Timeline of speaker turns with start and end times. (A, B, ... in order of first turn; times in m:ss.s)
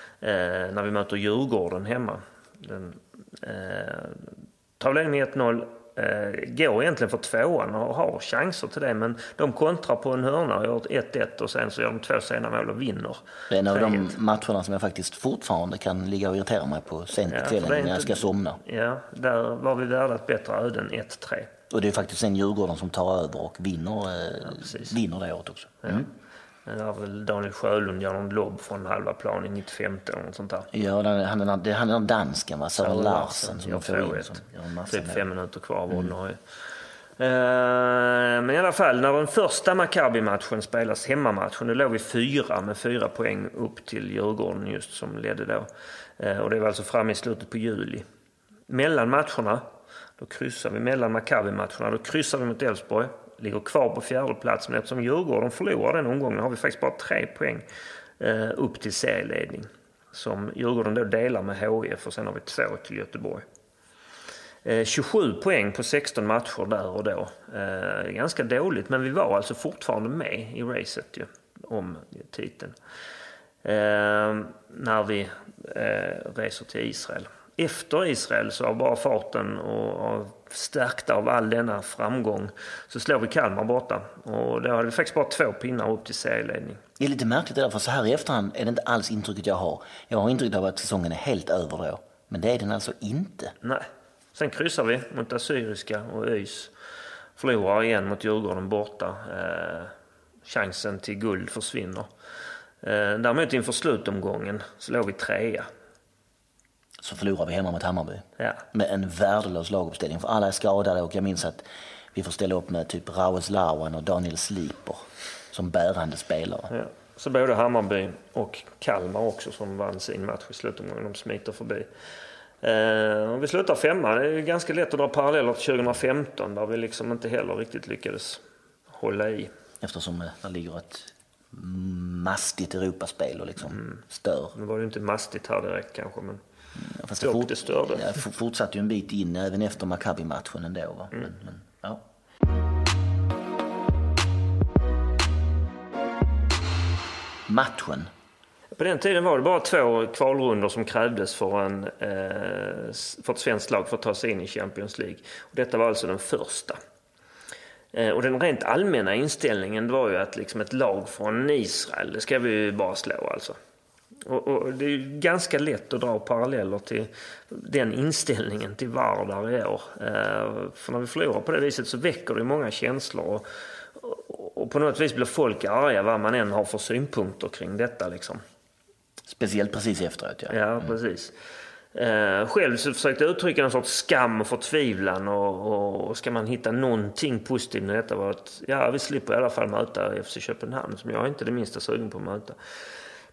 0:00.2-0:14.1 A
0:13.5-0:18.6 B
0:17.3-0:21.5 A
0:21.7-0:26.1 B
0:24.6-0:24.9 A
0:25.8-0:26.1 A
0:26.6-0:30.7 A
0:30.7-0:35.2 B
0:32.8-0:36.6 A
0:37.2-0:48.0 A
0:48.7-0:49.6 A
0:50.2-0:57.6 A
0:58.2-1:03.4 A
1:04.6-1:12.8 A
1:13.6-1:26.8 A
1:27.0-1:33.5 B
1:33.6-1:36.7 A
1:37.4-1:39.9 A
1:40.4-1:42.1 A
1:42.8-1:45.7 A
1:47.0-1:56.7 B
1:56.7-2:01.9 A
2:02.6-2:09.5 A
2:09.8-2:14.5 B
2:13.7-2:14.0 A
2:14.5-2:16.4 A
2:16.8-2:22.0 B
2:17.2-2:18.2 A
2:27.5-2:28.1 B
2:28.8-2:36.8 A
2:37.9-2:43.6 A
2:44.2-2:58.4 A
2:59.3-3:00.9 B
3:00.5-3:01.3 A
3:01.9-3:12.6 A